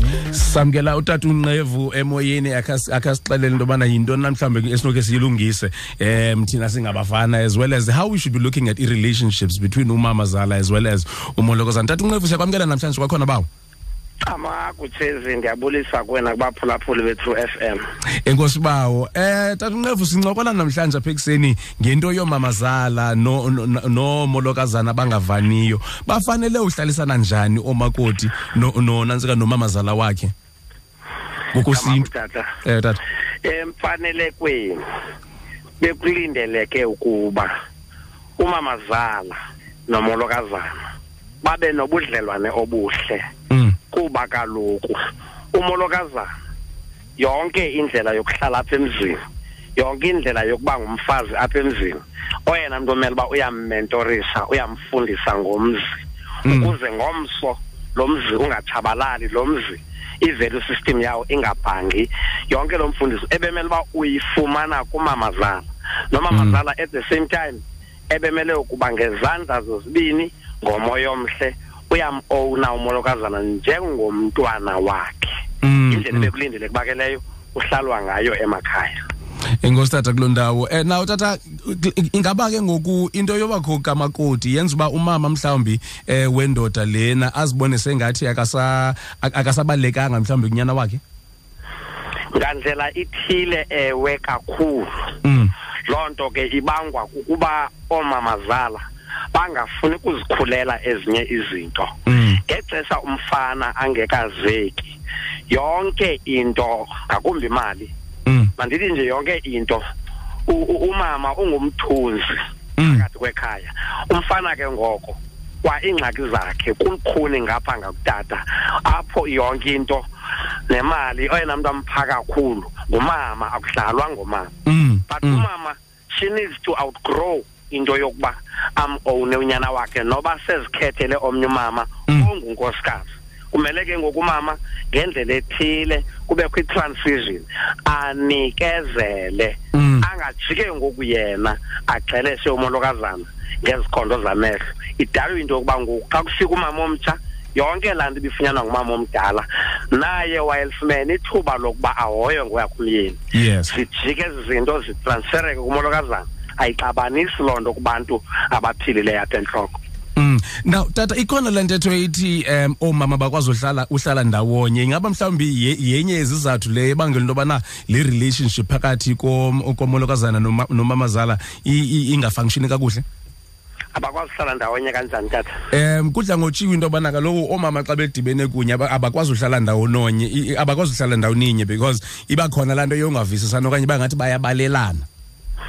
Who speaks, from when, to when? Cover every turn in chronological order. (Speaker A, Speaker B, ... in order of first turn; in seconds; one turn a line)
Speaker A: 0.3-13.5
Speaker B: 14.2-17.8
Speaker A: 18.2-30.3
Speaker A: 31.5-32.1
Speaker B: 31.6-32.5
Speaker A: 32.6-33.0
Speaker B: 33.4-34.8
Speaker B: 35.8-37.5
Speaker B: 38.4-39.4
Speaker B: 39.9-40.8
Speaker B: 41.4-43.2
Speaker A: 43.5-43.8
Speaker B: 43.9-45.0
Speaker B: 45.5-46.3
Speaker B: 47.2-49.2
Speaker B: 49.8-79.0
Speaker A: 56.5-56.7
Speaker A: 66.3-66.6
Speaker A: 75.6-76.3
Speaker A: 79.6-91.0
Speaker B: 92.3-94.9
Speaker A: 95.2-95.5
Speaker B: 95.9-105.0
Speaker A: 102.1-102.4
Speaker B: 105.5-107.9
Speaker A: 108.3-108.5
Speaker B: 108.6-109.8
Speaker B: 110.5-120.1
Speaker A: 112.8-113.0
Speaker B: 120.7-124.5
Speaker A: 124.7-125.5
Speaker B: 125.1-159.8
Speaker A: 139.7-140.1
Speaker A: 153.3-153.7
Speaker A: 160.2-173.0
Speaker B: 173.9-175.5
Speaker A: 175.7-185.1